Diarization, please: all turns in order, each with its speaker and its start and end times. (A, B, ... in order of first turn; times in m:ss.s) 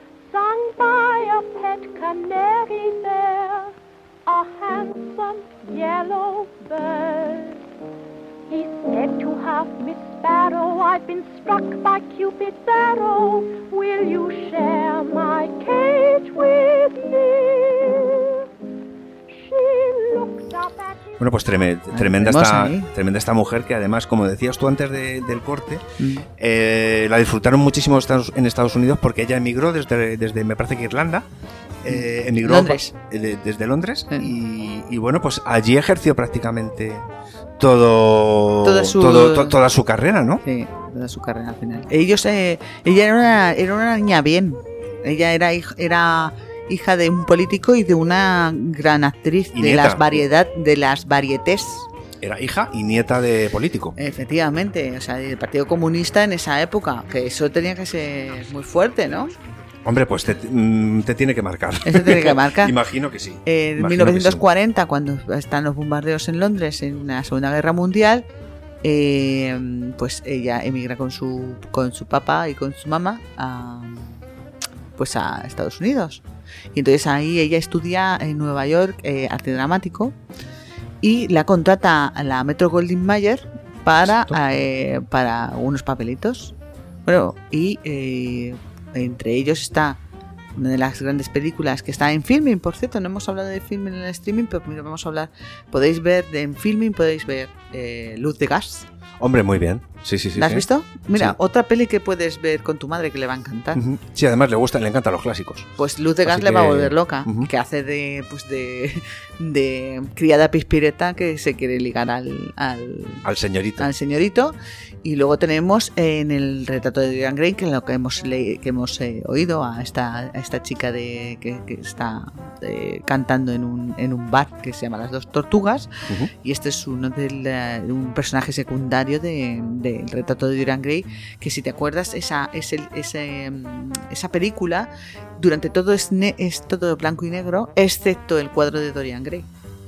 0:00.2-0:03.7 A
0:04.3-0:07.6 A
0:08.5-0:18.5 A
0:19.3-0:21.1 A
0:21.2-0:25.8 B
0:21.9-0:22.9 C
0:26.0-0:26.3 C
0:26.4-0:31.3 B
0:31.8-0:37.1 B
0:31.9-0:32.9 C
0:37.6-0:40.4 B
0:38.6-0:39.6 C
0:40.4-0:51.9 C
0:49.5-0:50.2 B
0:52.2-0:54.0 B
0:54.0-0:59.3 C
0:59.8-1:04.4 B
1:01.9-1:02.7 C
1:03.4-1:08.3 C
1:08.8-1:14.2 C
1:15.0-1:16.2 C
1:16.8-1:20.2 C
1:21.0-1:26.5 C
1:24.0-1:24.4 B
1:27.1-1:30.0 C
1:30.6-1:38.9 C
1:39.2-1:41.4 B
1:40.4-1:43.8 C
1:43.8-1:45.7 B
1:45.8-1:53.2 C
1:46.2-1:47.5 B
1:53.2-1:53.9 B
1:53.8-2:05.9 C
2:06.4-2:19.5 C